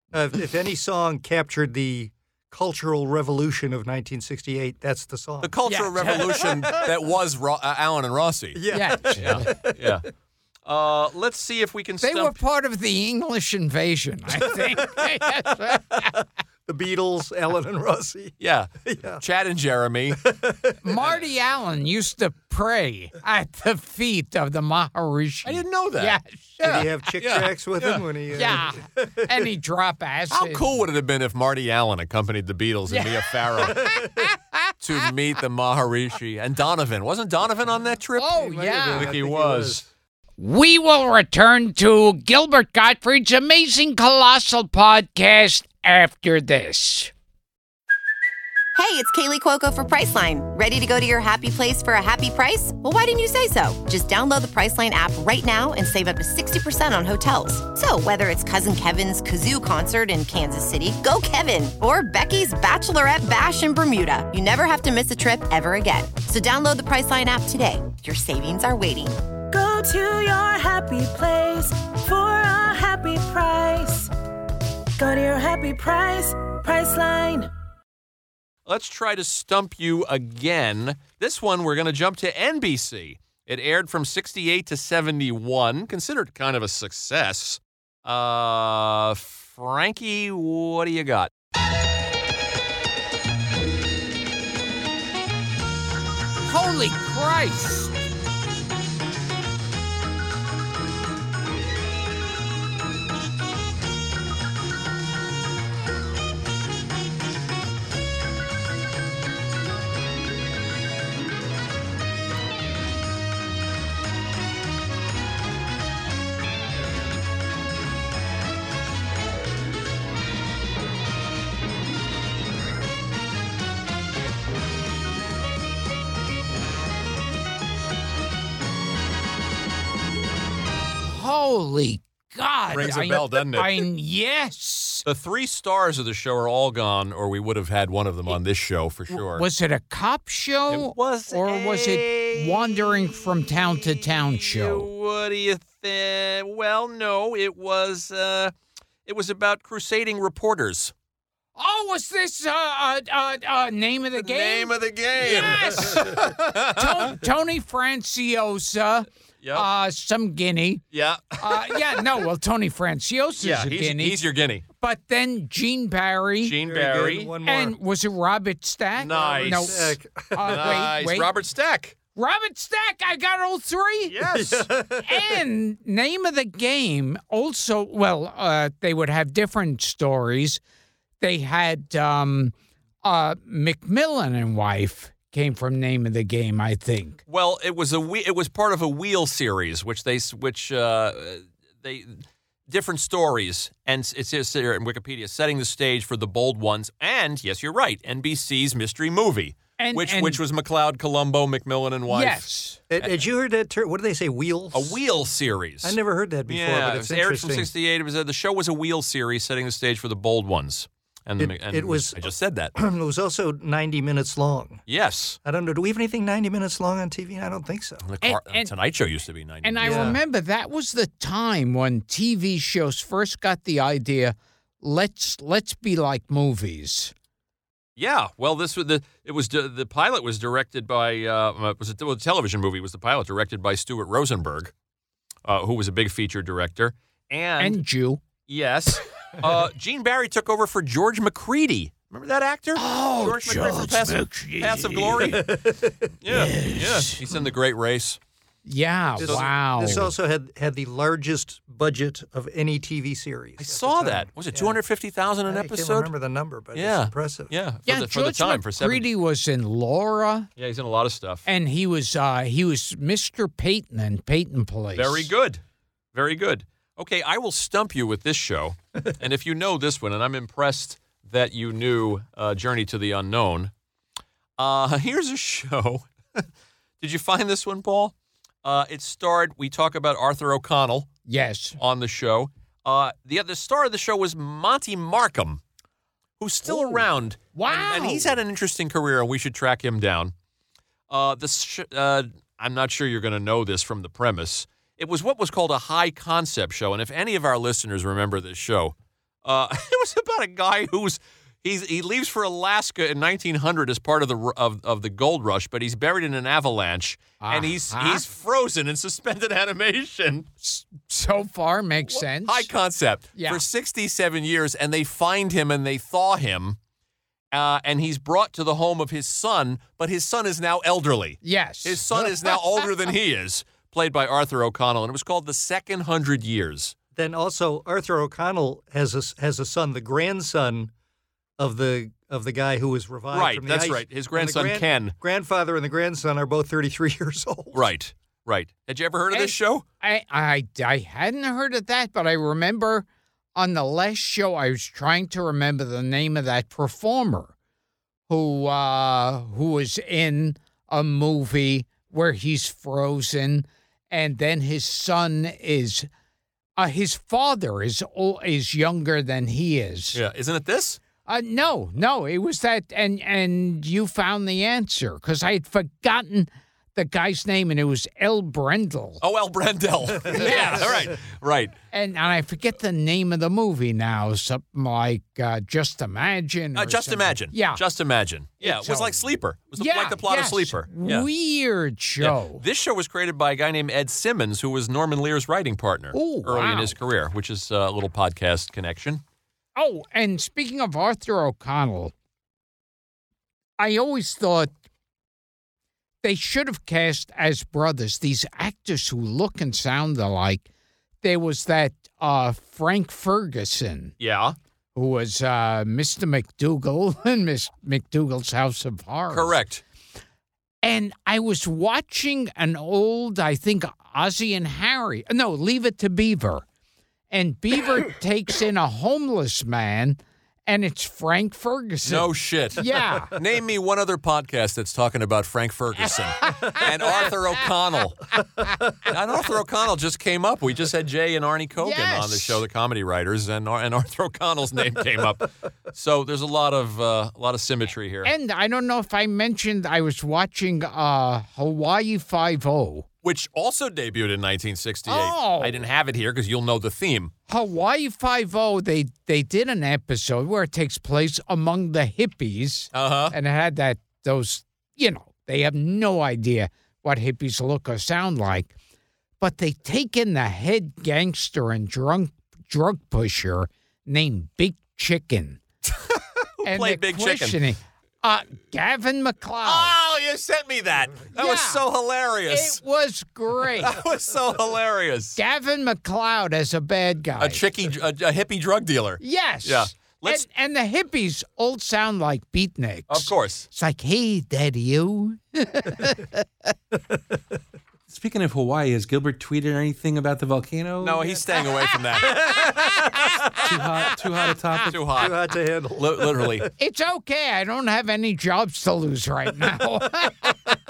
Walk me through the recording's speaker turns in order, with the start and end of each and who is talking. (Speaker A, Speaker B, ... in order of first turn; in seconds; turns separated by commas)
Speaker A: 0.1-6.9, Speaker B: 5.4-8.6, Speaker C: 5.7-6.5, Speaker A: 8.6-10.0, Speaker C: 8.7-9.6, Speaker B: 9.2-10.1, Speaker B: 10.7-12.4, Speaker C: 12.0-16.1, Speaker A: 14.6-15.1, Speaker A: 15.9-19.2, Speaker B: 18.4-20.2, Speaker A: 20.2-20.8, Speaker C: 20.8-26.9, Speaker B: 25.4-28.0, Speaker A: 26.6-29.3, Speaker C: 28.3-30.7, Speaker B: 30.3-33.9, Speaker C: 32.9-35.1, Speaker A: 33.8-34.2, Speaker B: 34.8-39.8, Speaker C: 38.2-39.1, Speaker A: 38.4-39.9, Speaker C: 40.4-47.1, Speaker D: 48.8-69.2, Speaker E: 69.5-74.1, Speaker E: 75.0-77.5, Speaker B: 78.7-91.3, Speaker C: 96.4-97.9, Speaker C: 131.0-135.1, Speaker B: 132.7-133.9, Speaker B: 135.1-139.4, Speaker C: 139.1-144.9, Speaker B: 140.7-148.5, Speaker B: 149.1-150.9, Speaker C: 151.6-160.8, Speaker B: 154.2-157.2, Speaker B: 160.9-162.1, Speaker C: 161.4-164.2, Speaker B: 163.4-164.6, Speaker C: 164.8-166.6, Speaker B: 166.4-167.3, Speaker A: 166.6-167.8, Speaker C: 167.4-171.3, Speaker B: 169.0-169.9, Speaker A: 169.0-170.9, Speaker B: 170.4-172.0, Speaker C: 172.2-174.2, Speaker B: 174.1-174.7, Speaker A: 174.2-175.3, Speaker C: 175.0-180.6, Speaker C: 181.2-187.2, Speaker B: 187.3-202.5, Speaker C: 199.8-200.4, Speaker C: 202.1-202.8, Speaker A: 202.9-205.0, Speaker B: 204.7-206.0, Speaker A: 205.8-207.7, Speaker B: 206.5-212.7, Speaker A: 211.4-214.8, Speaker B: 214.9-215.4, Speaker A: 215.4-218.0, Speaker B: 218.0-220.2, Speaker C: 218.2-218.7, Speaker C: 219.6-227.1, Speaker A: 219.8-220.2, Speaker B: 228.0-234.7, Speaker B: 235.4-237.8, Speaker C: 237.6-238.2, Speaker B: 238.5-245.5, Speaker C: 242.8-245.4, Speaker A: 245.2-246.1, Speaker B: 246.2-248.2, Speaker C: 246.3-247.2, Speaker C: 248.7-250.1, Speaker B: 249.2-249.5, Speaker A: 249.2-254.8, Speaker B: 253.6-256.1, Speaker A: 255.5-257.5, Speaker B: 256.8-259.1, Speaker C: 257.9-260.5, Speaker B: 260.6-261.4, Speaker C: 261.5-265.3, Speaker B: 264.9-265.6, Speaker B: 266.1-273.7, Speaker B: 274.6-276.4, Speaker B: 277.0-281.1, Speaker C: 281.3-281.8, Speaker B: 281.8-285.6, Speaker B: 286.4-290.3, Speaker C: 286.7-288.4, Speaker B: 291.1-310.5, Speaker C: 307.4-308.2, Speaker C: 310.6-312.7, Speaker B: 312.1-316.8, Speaker C: 313.4-313.6, Speaker B: 317.5-327.0, Speaker C: 321.4-322.6, Speaker A: 327.1-330.9, Speaker A: 331.6-337.9, Speaker B: 333.3-335.1, Speaker B: 337.7-339.8, Speaker C: 339.3-347.5, Speaker C: 348.3-356.1, Speaker C: 356.8-360.2, Speaker B: 360.1-361.0, Speaker C: 361.3-369.2, Speaker B: 369.2-371.7, Speaker C: 370.3-371.1, Speaker A: 370.4-371.1, Speaker C: 371.9-377.8, Speaker B: 376.8-381.3, Speaker C: 378.6-382.6, Speaker B: 382.2-389.2, Speaker C: 386.1-387.0, Speaker C: 389.8-392.1, Speaker C: 393.8-394.7, Speaker C: 396.2-400.7, Speaker C: 401.2-404.1, Speaker B: 404.2-404.6, Speaker C: 404.9-409.6, Speaker B: 409.3-409.8, Speaker C: 410.8-416.6, Speaker C: 417.3-423.3, Speaker B: 422.1-428.2, Speaker C: 426.0-427.6, Speaker A: 426.5-426.9, Speaker B: 429.1-438.3, Speaker C: 431.8-432.6, Speaker C: 438.2-443.1, Speaker B: 443.2-447.3, Speaker C: 445.1-445.9, Speaker C: 447.5-458.7, Speaker B: 452.9-453.4, Speaker C: 459.4-465.6, Speaker B: 465.9-467.6, Speaker C: 466.6-469.9, Speaker B: 469.6-472.8, Speaker C: 471.3-471.9, Speaker C: 472.5-474.0, Speaker B: 473.6-475.4, Speaker C: 475.4-477.6, Speaker B: 477.4-480.4, Speaker C: 479.2-486.4, Speaker B: 483.1-483.7, Speaker F: 488.1-491.4, Speaker B: 491.0-493.7, Speaker F: 493.6-495.1, Speaker B: 494.9-495.4, Speaker A: 495.1-496.7, Speaker B: 496.0-496.7, Speaker C: 496.8-500.6